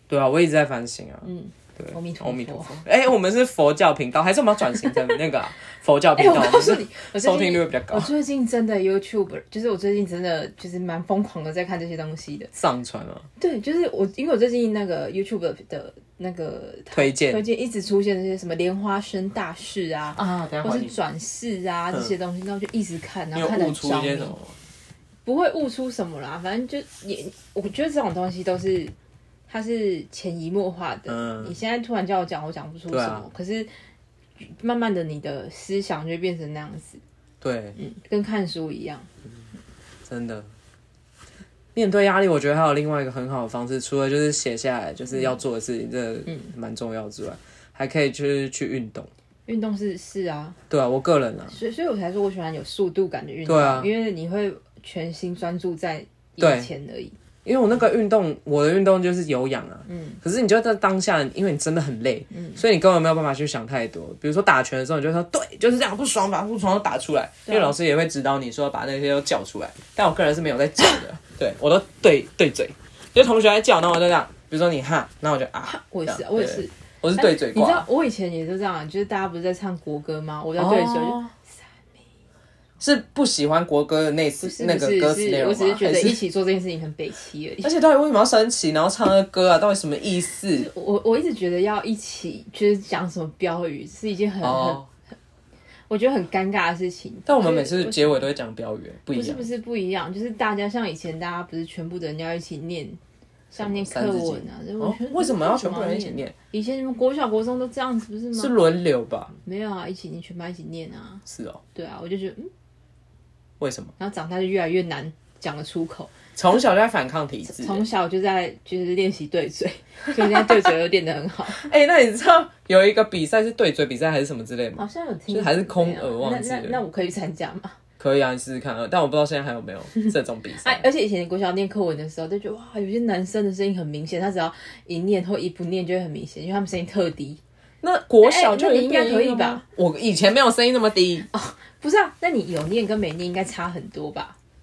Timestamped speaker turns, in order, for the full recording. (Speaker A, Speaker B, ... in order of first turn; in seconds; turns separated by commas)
Speaker A: 0.1-1.3, Speaker B: 1.2-2.8, Speaker A: 1.8-8.1, Speaker B: 6.2-12.5, Speaker A: 12.6-13.3, Speaker B: 13.4-24.4, Speaker A: 16.9-17.4, Speaker A: 20.2-20.9, Speaker A: 23.3-24.6, Speaker B: 25.2-28.9, Speaker B: 29.5-33.7, Speaker A: 31.1-31.6, Speaker A: 32.9-33.3, Speaker B: 34.4-37.0, Speaker A: 37.4-37.8, Speaker B: 37.8-39.1, Speaker A: 40.1-40.5, Speaker A: 41.8-49.1, Speaker B: 49.5-50.6, Speaker A: 50.7-51.5, Speaker B: 51.5-57.2, Speaker A: 53.5-53.9, Speaker A: 56.4-56.7, Speaker A: 57.5-77.9, Speaker B: 59.9-60.2, Speaker B: 62.3-62.6, Speaker B: 67.5-67.8, Speaker B: 75.6-81.8, Speaker A: 80.6-81.3, Speaker A: 82.8-86.2, Speaker B: 84.4-87.7, Speaker A: 87.6-90.7, Speaker B: 90.5-94.8, Speaker A: 94.4-94.9, Speaker B: 95.9-98.2, Speaker A: 97.3-99.5, Speaker B: 99.1-103.0, Speaker A: 103.5-106.3, Speaker B: 103.6-108.5, Speaker A: 108.4-109.3, Speaker B: 109.5-112.5, Speaker A: 111.3-111.6, Speaker A: 113.6-113.9, Speaker B: 114.0-116.1, Speaker A: 116.3-117.8, Speaker B: 117.5-121.7, Speaker A: 121.5-126.8, Speaker B: 124.8-127.8, Speaker A: 128.0-130.8, Speaker B: 130.6-137.4, Speaker A: 137.8-141.3, Speaker B: 138.2-139.6, Speaker B: 141.3-144.4